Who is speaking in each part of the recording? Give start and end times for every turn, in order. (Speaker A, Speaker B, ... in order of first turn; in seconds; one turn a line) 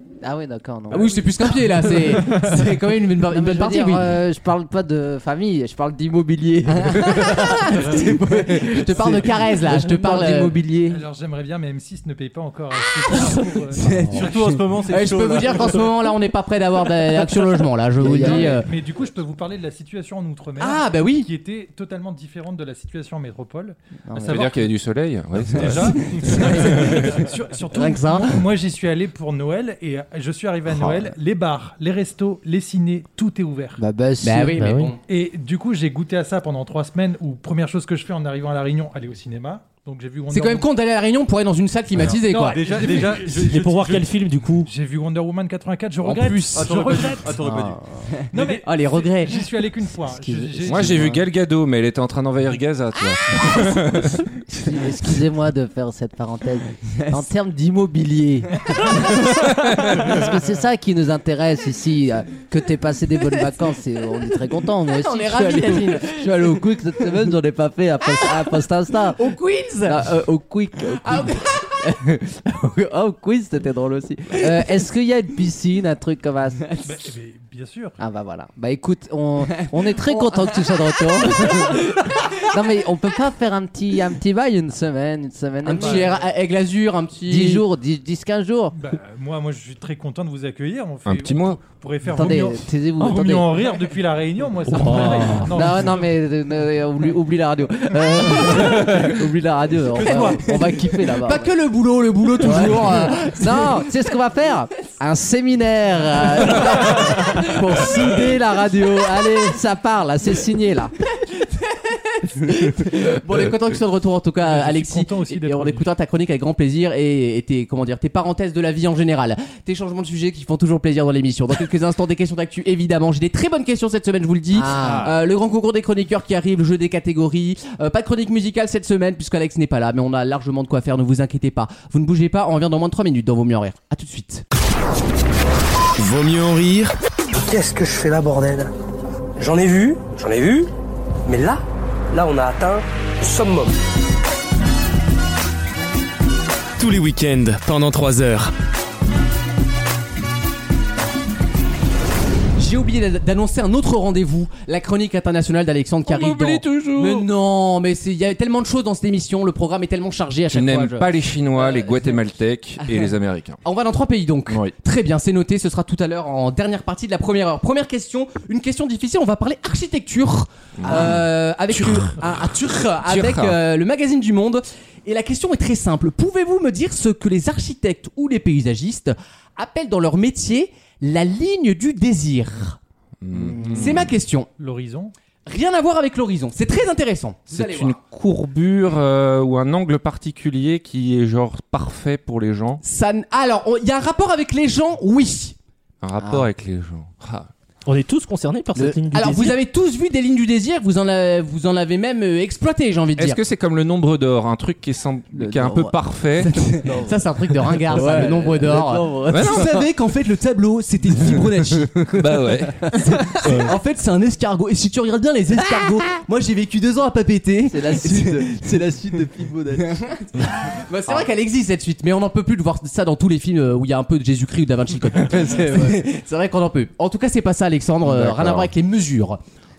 Speaker A: 0.2-1.9
Speaker B: 0.9-4.1
Speaker A: 3.3-11.0
Speaker B: 6.7-10.6
Speaker C: 10.9-13.9
Speaker A: 13.8-14.1
Speaker B: 13.8-14.4
Speaker D: 14.1-15.9
Speaker B: 14.9-18.7
Speaker A: 18.0-18.6
Speaker C: 18.0-24.7
Speaker B: 20.6-21.3
Speaker A: 24.1-24.4
Speaker E: 24.2-27.2
Speaker C: 25.4-33.8
Speaker B: 27.7-28.4
Speaker A: 33.8-34.6
Speaker B: 34.2-35.0
Speaker F: 34.6-34.9
Speaker C: 35.1-40.7
Speaker B: 40.3-42.6
Speaker C: 42.0-43.5
Speaker D: 42.1-44.1
Speaker F: 43.4-44.7
Speaker C: 44.6-47.4
Speaker B: 46.0-47.2
Speaker D: 46.5-47.8
Speaker A: 47.4-48.2
Speaker C: 48.3-51.2
Speaker B: 48.3-49.5
Speaker A: 50.1-51.2
Speaker E: 50.6-54.2
Speaker A: 54.5-59.3
Speaker E: 59.2-60.2
Speaker A: 59.8-69.3
Speaker B: 64.9-66.6
Speaker B: 68.2-70.1
Speaker A: 69.8-76.9
Speaker B: 71.0-71.9
Speaker B: 74.4-74.7
Speaker C: 76.8-78.0
Speaker A: 78.0-86.2
Speaker B: 79.9-80.5
Speaker B: 85.6-87.6
Speaker C: 85.8-86.2
Speaker A: 87.3-88.7
Speaker C: 88.7-96.1
Speaker E: 91.0-91.6
Speaker A: 92.1-93.5
Speaker F: 94.7-95.5
Speaker A: 95.3-101.5
Speaker C: 100.0-100.3
Speaker B: 100.0-103.8
Speaker A: 102.4-110.9
Speaker B: 112.2-134.4
Speaker C: 114.4-115.9
Speaker A: 124.5-125.1
Speaker C: 124.7-125.1
Speaker G: 136.0-136.9
Speaker H: 137.3-138.7
Speaker H: 139.4-140.7
Speaker H: 141.2-143.7
Speaker G: 146.8-148.5
Speaker B: 152.6-162.1
Speaker E: 156.1-157.3
Speaker E: 160.5-163.6
Speaker B: 162.8-163.1
Speaker B: 163.6-182.8
Speaker E: 164.5-164.7
Speaker E: 170.8-172.5
Speaker E: 173.0-173.6
Speaker E: 183.2-184.1
Speaker A: 183.3-183.8
Speaker B: 183.5-184.5
Speaker C: 184.6-185.1
Speaker B: 185.4-188.0
Speaker E: 187.5-192.8
Speaker B: 192.8-195.6
Speaker E: 196.0-197.5
Speaker F: 197.8-199.6
Speaker B: 198.8-203.4
Speaker E: 203.2-206.7
Speaker A: 205.3-206.0
Speaker B: 206.4-218.9
Speaker A: 206.8-209.7
Speaker E: 209.3-209.8
Speaker E: 212.1-212.9
Speaker F: 213.4-213.7
Speaker A: 217.7-220.0
Speaker B: 220.1-229.4
Speaker A: 225.2-226.0
Speaker E: 228.0-228.7